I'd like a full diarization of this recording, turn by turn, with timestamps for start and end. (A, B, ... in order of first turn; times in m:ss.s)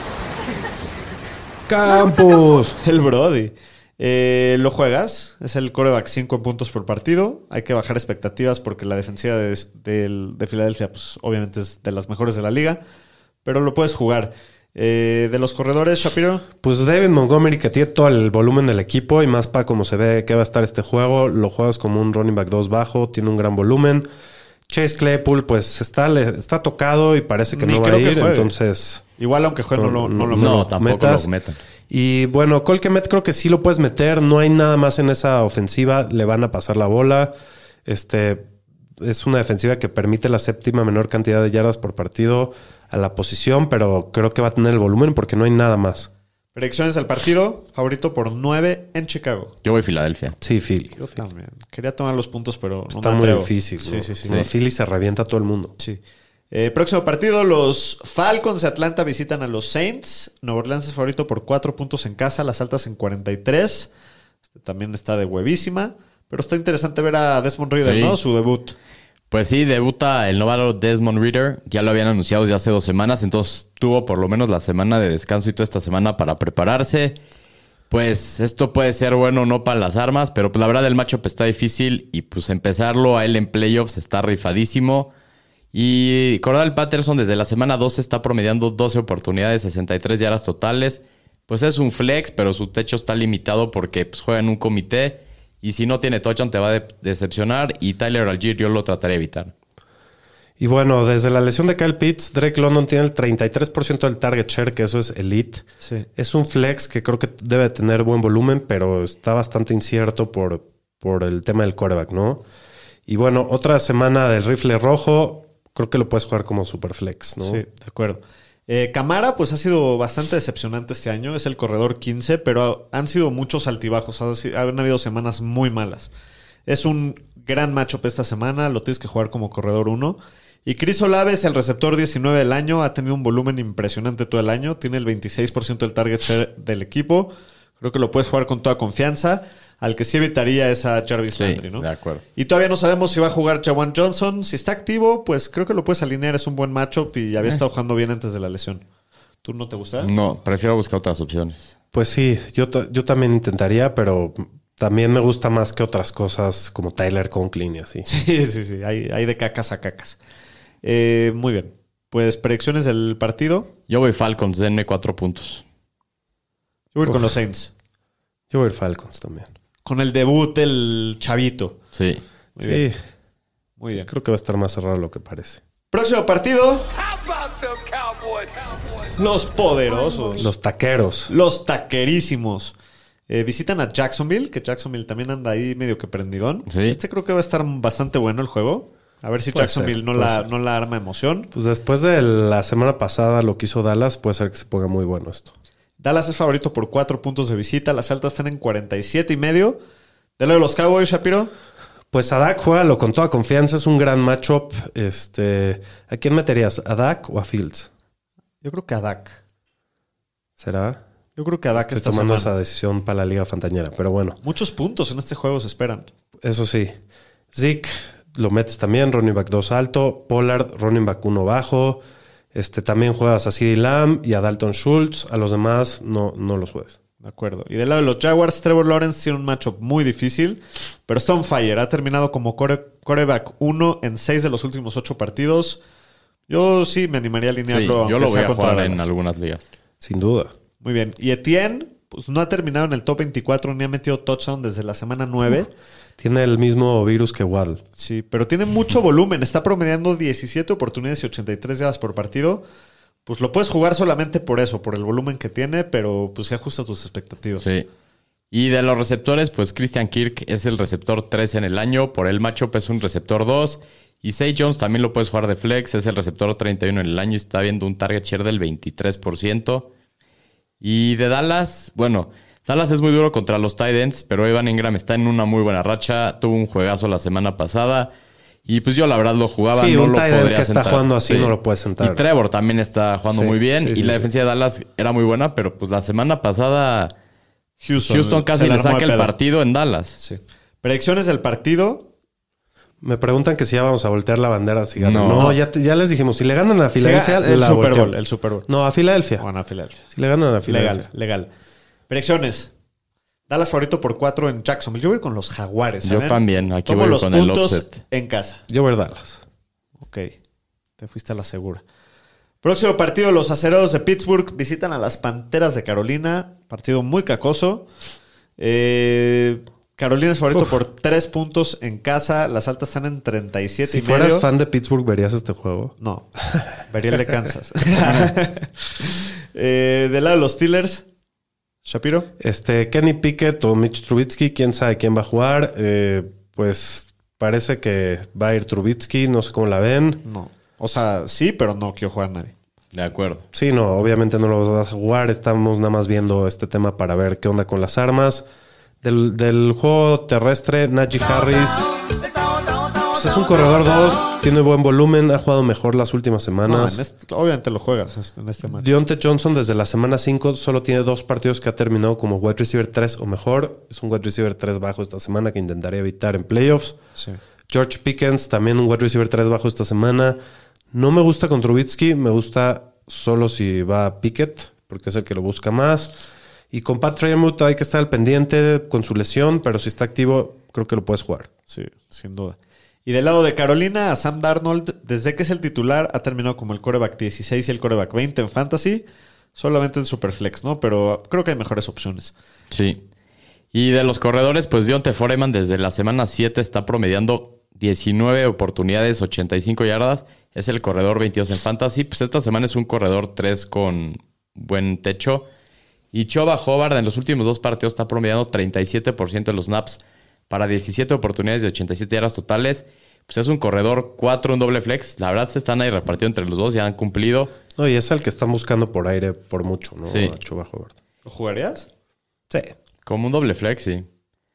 0:01.7-0:02.8 A
0:02.8-0:12.8 B
0:13.4-0:16.4 B
0:16.6-0:24.1 A
0:24.7-0:29.0 A
0:27.5-0:28.5 B
0:29.2-0:30.7 B
0:29.8-0:31.3 A
0:30.4-0:31.6 C
0:31.9-0:37.3 A
0:37.8-0:38.4 A
0:39.0-0:46.1 A
0:46.5-0:49.5 B
0:49.6-0:50.4 C
0:50.4-0:51.2 A
0:51.0-0:54.3 B
0:52.9-0:55.8 A
0:55.8-1:03.9 B
1:04.5-1:08.8 B
1:07.8-1:08.2 C
1:09.3-1:17.2 C
1:17.9-1:25.1 C
1:25.7-1:39.5 C
1:40.6-1:52.4 A
1:45.8-1:46.1 B
1:53.1-1:57.6 A
1:57.4-2:06.1 B
2:06.7-2:28.8 B
2:21.4-2:22.2 C
2:29.4-2:30.1 B
2:30.0-2:31.8 C
2:31.9-2:38.1 A
2:38.1-2:40.2 B
2:40.8-2:43.7 B
2:43.9-2:45.6 C
2:46.9-2:47.7 B
2:47.0-2:47.3 A
2:48.5-2:49.5 A
2:49.8-2:51.8 B
2:51.9-2:52.2 C
2:52.6-2:52.8 B
2:52.6-2:53.0 A
2:53.8-2:54.1 B
2:53.9-2:55.6 A
2:55.9-2:56.9 B
2:59.2-3:00.5 B
3:00.4-3:01.3 A
3:01.3-3:02.8 B
3:03.3-3:11.5 B
3:06.7-3:07.0 C
3:09.5-3:10.5 A
3:11.5-3:15.5 A
3:16.0-3:19.8 B
3:20.4-3:21.5 B
3:22.1-3:27.9 A
3:28.6-3:29.4 B
3:30.6-3:31.0 A
3:31.4-3:32.5 B
3:31.8-3:34.4 A
3:34.4-3:36.1 B
3:36.4-3:36.9 A
3:37.5-3:42.0 A
3:42.5-3:47.0 A
3:47.2-3:55.8 B
3:56.5-3:59.1 B
3:57.7-3:59.7 C
4:00.0-4:00.5 A
4:00.8-4:05.7 B
4:06.2-4:07.8 A
4:08.0-4:12.6 B
4:13.2-4:17.6 B
4:17.6-4:17.9 C
4:18.5-4:29.9 C
4:30.8-4:38.1 C
4:38.6-4:47.1 C
4:39.7-4:42.2 A
4:43.3-4:44.3 A
4:47.8-4:49.3 B
4:48.0-4:50.2 C
4:50.2-4:52.1 B
4:53.0-4:59.4 A
4:55.0-4:55.5 C
4:57.0-4:58.7 B
4:59.4-5:00.1 B
5:00.1-5:01.1 A
5:00.6-5:01.5 B
5:02.1-5:02.7 B
5:03.5-5:08.6 B
5:06.0-5:08.0 C
5:08.7-5:09.4 A
5:10.0-5:10.4 B
5:11.0-5:11.8 B
5:12.6-5:17.9 B
5:18.6-5:24.5 B
5:23.9-5:25.9 A
5:26.0-5:26.3 B
5:26.8-5:31.1 B
5:31.8-5:32.3 B
5:32.4-5:40.2 A
5:40.2-5:42.5 B
5:42.9-5:43.4 C
5:43.5-5:48.4 A
5:49.0-5:51.9 A
5:53.1-5:57.0 A
5:56.6-5:58.9 B
5:58.7-6:07.0 A
6:07.7-6:10.4 A
6:10.9-6:16.1 A
6:16.7-6:21.5 A
6:21.7-6:29.0 B
6:29.6-6:32.3 B
6:32.7-6:33.0 C
6:33.7-6:45.4 C
6:46.1-6:57.5 C
6:57.8-7:00.9 A
7:00.1-7:00.3 C
7:01.2-7:01.9 B
7:03.0-7:04.1 C